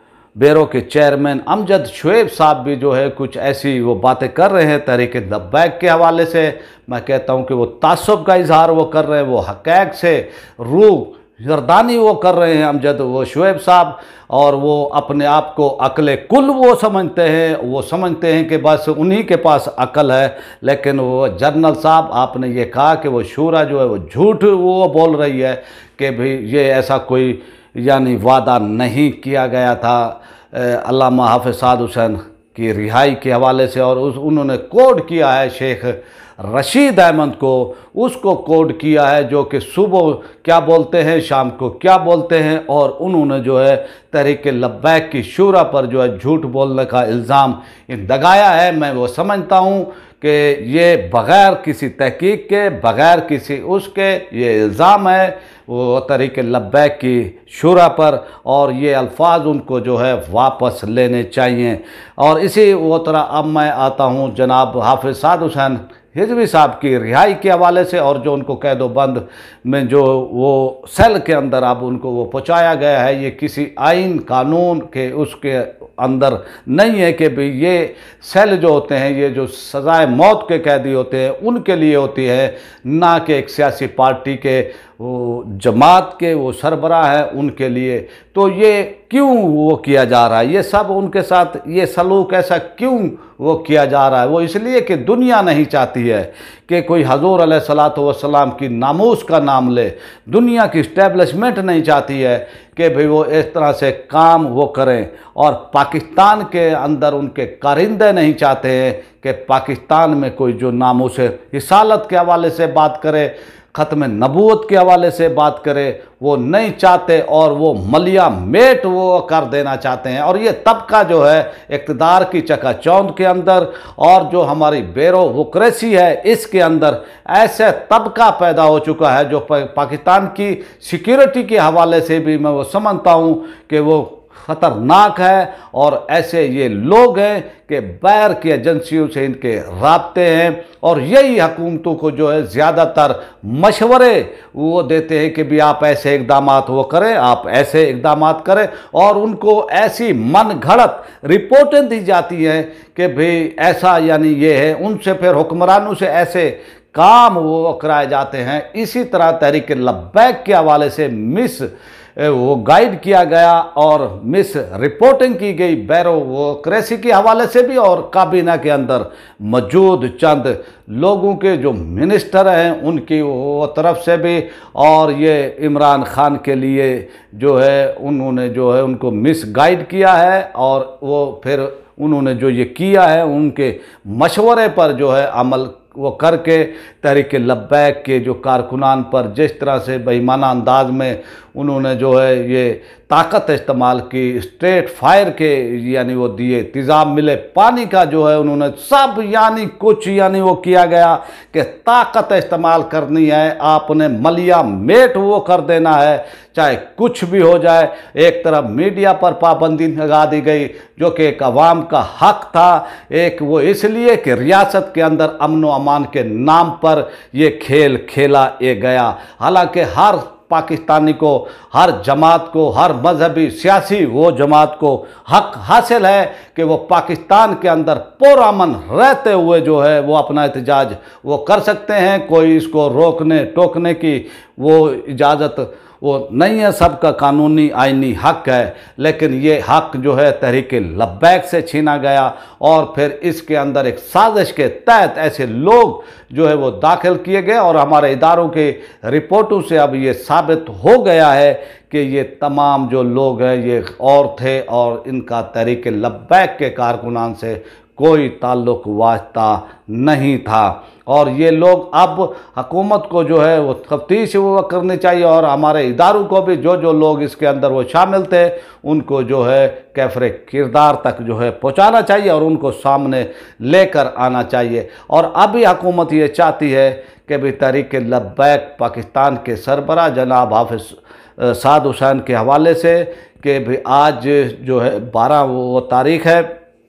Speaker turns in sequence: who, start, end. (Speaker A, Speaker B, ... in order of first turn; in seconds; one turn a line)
Speaker A: 0.3-286.5